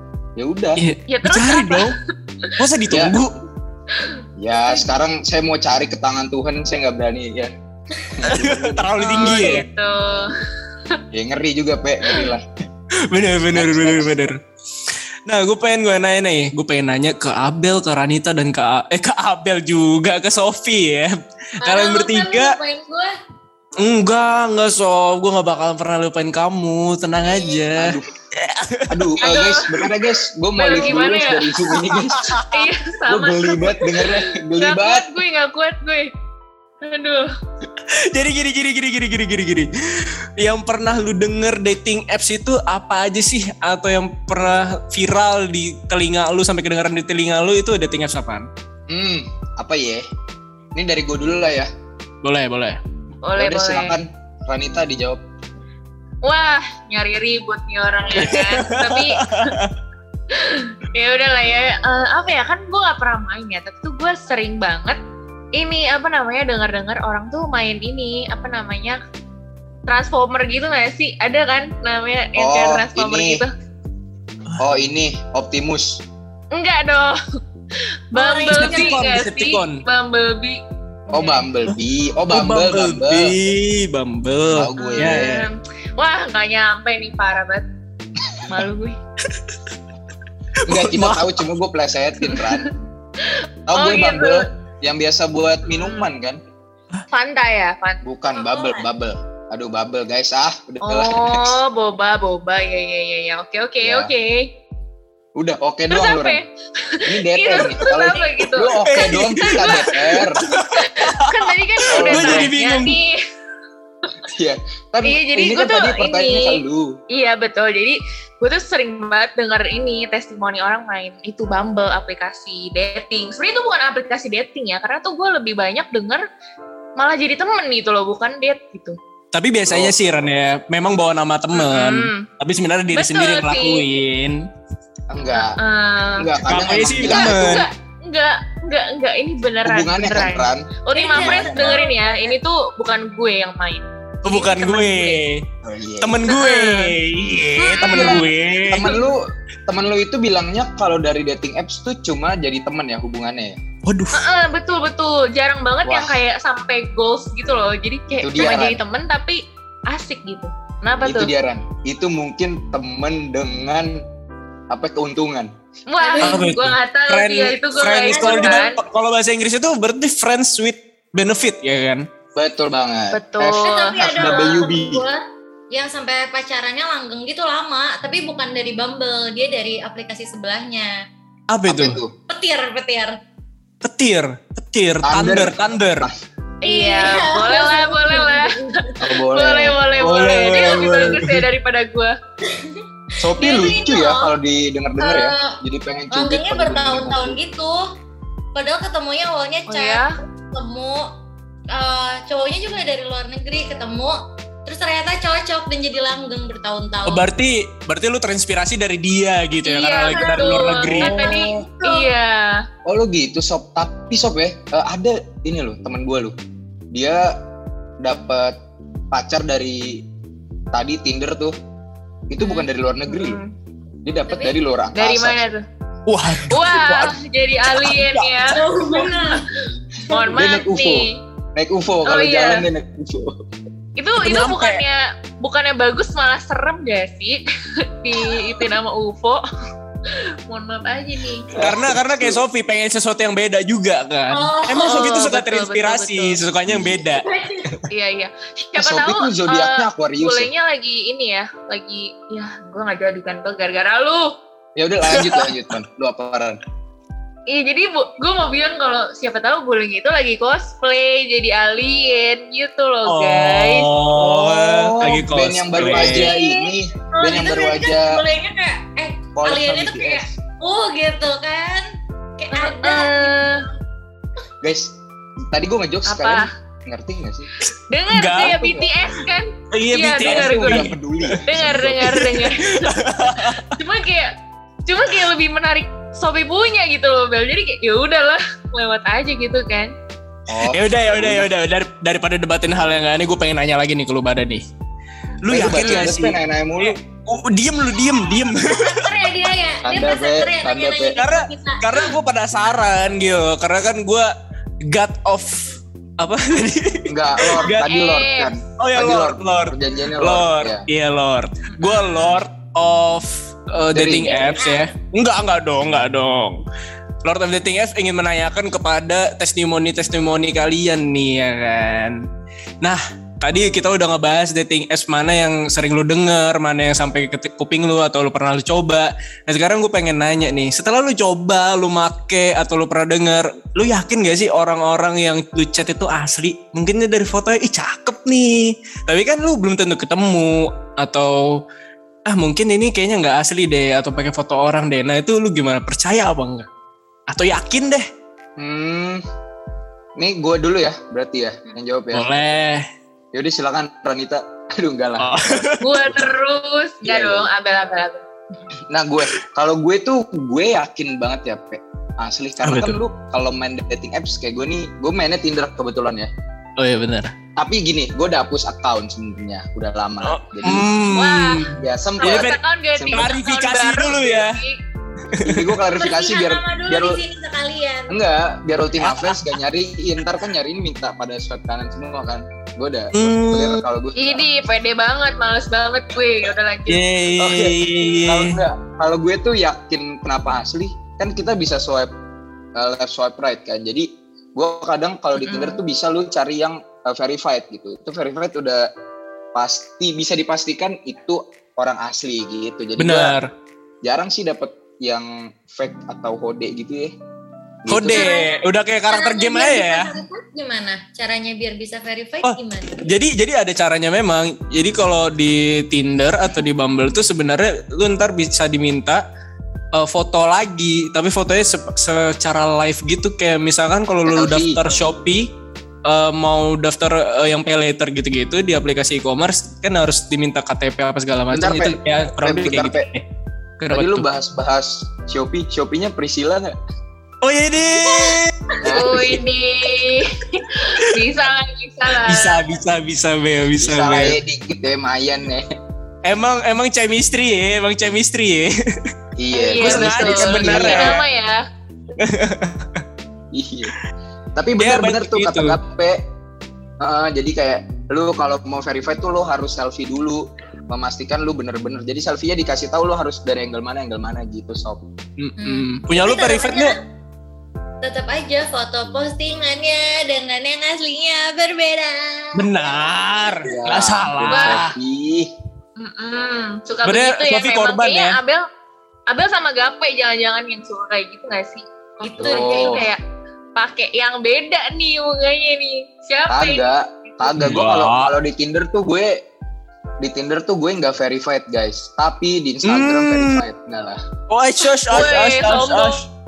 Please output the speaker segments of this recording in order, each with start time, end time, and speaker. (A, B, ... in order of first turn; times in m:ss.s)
0:00.4-0:00.8 A
0:00.8-0:02.0 B
0:01.1-0:02.5 C
0:02.6-0:03.3 B
0:04.4-0:07.5 A
0:08.1-0:09.5 A
0:08.2-0:09.6 B
0:09.0-0:10.3 C
0:11.1-0:12.4 A
0:13.1-0:14.4 B
0:13.5-0:14.2 A
0:15.3-0:22.6 B
0:21.6-0:23.1 D
0:23.8-0:29.2 B
0:27.2-0:27.6 D
0:27.8-0:28.1 A
0:28.9-0:32.4 A
0:29.2-0:29.8 C
0:30.6-0:31.5 C
0:31.7-0:32.6 B
0:32.5-0:36.1 C
0:33.1-0:35.1 A
0:36.8-0:37.3 C
0:37.9-0:48.5 B
0:48.9-0:50.0 A
0:50.8-0:51.7 A
0:52.2-0:52.8 B
0:53.2-0:54.0 C
0:53.4-0:55.2 A
0:56.2-0:59.6 C
0:58.1-0:59.7 B
1:00.3-1:05.0 C
1:05.6-1:09.0 C
1:09.9-1:13.5 C
1:12.4-1:13.4 A
1:14.6-1:16.0 A
1:16.5-1:17.2 C
1:18.1-1:21.4 C
1:18.2-1:19.0 D
1:18.4-1:19.8 B
1:21.1-1:23.3 A
1:22.3-1:25.5 B
1:24.5-1:25.3 A
1:24.8-1:27.6 C
1:28.5-1:29.0 C
1:30.6-1:31.4 B
1:30.7-1:32.7 A
1:32.2-1:32.6 C
1:33.2-1:34.4 C
1:33.7-1:36.4 A
1:35.7-1:36.0 C
1:37.1-1:38.0 C
1:38.0-1:41.6 A
1:38.3-1:38.9 D
1:40.8-1:44.5 C
1:43.8-1:44.1 A
1:45.4-1:46.4 A
1:45.9-1:53.2 C
1:47.1-1:50.4 A
1:48.7-1:53.0 B
1:51.9-1:52.5 A
1:54.3-1:57.0 A
1:55.0-1:56.6 C
1:57.1-2:06.2 C
2:07.0-2:09.0 C
2:09.3-2:14.4 B
2:09.7-2:09.9 A
2:11.5-2:12.3 C
2:12.9-2:13.8 C
2:15.1-2:15.6 A
2:15.3-2:25.2 C
2:16.2-2:17.6 A
2:16.4-2:17.6 B
2:19.6-2:21.8 A
2:20.9-2:22.4 D
2:24.2-2:25.4 B
2:25.6-2:26.3 A
2:26.0-2:28.8 B
2:26.3-2:26.9 C
2:27.6-2:29.0 C
2:27.8-2:33.6 A
2:33.9-2:34.2 B
2:34.1-2:41.3 C
2:35.8-2:36.2 A
2:38.2-2:38.8 A
2:41.0-2:44.0 A
2:44.7-2:45.5 A
2:45.9-2:48.8 C
2:46.0-2:46.4 D
2:46.2-2:52.0 B
2:48.1-2:48.6 D
2:52.4-2:55.0 A
2:53.1-2:54.6 C
2:53.6-3:00.9 D
3:01.5-3:02.0 B
3:01.7-3:02.1 A
3:02.3-3:03.2 D
3:03.8-3:06.1 B
3:05.0-3:06.1 A
3:06.6-3:12.2 C
3:06.6-3:08.9 D
3:09.0-3:09.8 A
3:10.0-3:11.4 B
3:12.5-3:14.3 D
3:13.2-3:17.4 A
3:15.0-3:15.6 D
3:16.1-3:17.8 D
3:18.5-3:21.1 D
3:19.7-3:20.1 C
3:21.7-3:27.3 D
3:27.0-3:31.1 B
3:29.6-3:32.6 C
3:30.1-3:32.1 D
3:31.1-3:31.6 A
3:32.8-3:36.4 A
3:36.9-3:37.3 A
3:38.0-3:38.5 A
3:39.1-3:40.0 A
3:40.7-3:41.6 A
3:42.3-3:43.4 A
3:42.4-3:43.5 C
3:44.0-3:45.4 A
3:44.3-3:44.6 D
3:44.9-3:45.6 C
3:46.1-3:47.1 B
3:46.4-3:49.2 C
3:47.6-3:48.3 B
3:48.4-3:49.5 D
3:50.1-3:51.2 C
3:50.3-3:53.4 A
3:52.0-3:52.7 C
3:54.0-3:57.4 C
3:54.2-3:54.8 B
3:58.0-3:59.4 C
4:00.1-4:01.5 C
4:01.5-4:02.4 A
4:01.5-4:07.8 B
4:04.3-4:05.2 D
4:04.7-4:06.4 C
4:06.7-4:07.7 D
4:07.9-4:14.3 C
4:08.8-4:10.5 A
4:14.8-4:16.6 A
4:15.1-4:15.5 B
4:17.5-4:23.9 C
4:23.0-4:26.3 B
4:24.2-4:28.2 A
4:25.8-4:31.8 D
4:29.4-4:30.4 A
4:32.4-4:33.6 D
4:32.5-4:33.6 C
4:34.6-4:34.9 A
4:35.5-4:37.5 A
4:36.0-4:36.5 C
4:37.6-4:38.6 B
4:37.9-4:40.8 C
4:38.4-4:38.9 A
4:39.7-4:43.7 B
4:40.2-4:42.2 A
4:41.4-4:44.3 C
4:44.9-4:49.9 C
4:50.5-4:51.5 A
4:50.6-4:54.6 B
4:55.4-4:59.1 B
4:55.5-4:57.0 A
4:58.3-5:02.1 D
4:59.8-5:01.2 A
5:01.2-5:04.3 B
5:04.8-5:07.8 B
5:07.1-5:10.8 A
5:07.8-5:08.5 C
5:08.8-5:16.6 B
5:11.7-5:12.3 C
5:13.9-5:14.5 A
5:14.2-5:14.9 D
5:17.2-5:22.2 B
5:22.8-5:41.6 B
5:42.3-5:46.7 B
5:47.3-5:48.0 B
5:48.6-5:49.2 A
5:50.2-5:52.4 A
5:52.1-5:52.8 B
5:53.3-5:55.3 A
5:55.2-5:55.8 B
5:55.8-5:58.2 C
5:57.0-5:57.5 A
5:58.9-6:06.3 A
6:02.6-6:03.0 B
6:06.8-6:07.3 B
6:07.6-6:10.9 A
6:10.2-6:12.6 B
6:11.1-6:11.6 C
6:11.8-6:13.3 A
6:12.2-6:14.8 C
6:13.1-6:14.6 B
6:15.3-6:15.6 B
6:15.4-6:17.2 A
6:15.9-6:18.2 D
6:18.1-6:24.5 A
6:19.0-6:19.4 B
6:23.1-6:23.8 B
6:24.2-6:27.0 C
6:26.9-6:28.6 B
6:27.4-6:32.1 A
6:32.8-6:38.8 A
6:35.4-6:35.8 C
6:39.5-6:43.3 A
6:43.0-6:43.5 B
6:44.0-6:47.1 A
6:47.8-6:48.3 A
6:47.9-6:50.1 B
6:48.1-6:48.5 D
6:49.1-6:53.0 D
6:52.4-6:59.2 B
6:59.9-7:05.5 B
7:04.2-7:04.8 A
7:06.0-7:13.2 B
7:11.5-7:13.0 A
7:13.8-7:14.2 B
7:13.9-7:16.7 A
7:17.4-7:18.5 B
7:18.8-7:19.4 A
7:18.9-7:22.6 C
7:22.2-7:24.4 B
7:23.8-7:25.6 A
7:26.2-7:28.7 B
7:29.4-7:31.2 A
7:29.5-7:31.6 C
7:29.8-7:31.2 B
7:32.2-7:33.0 B
7:33.5-7:33.9 A
7:34.6-7:36.2 A
7:34.8-7:35.8 B
7:37.0-7:45.0 A
7:45.4-7:46.9 B
7:45.6-7:46.9 D
7:48.0-7:53.0 D
7:52.5-7:54.9 B
7:53.6-7:55.5 A
7:54.5-7:54.8 C
7:56.0-7:58.6 C
7:57.0-7:58.4 B
7:59.3-8:03.2 C
8:02.2-8:03.1 D
8:02.4-8:03.1 A
8:03.8-8:07.5 C
8:06.5-8:09.3 A
8:07.6-8:08.3 B
8:10.2-8:14.2 A
8:12.8-8:13.6 B
8:14.5-8:16.2 B
8:15.1-8:16.2 C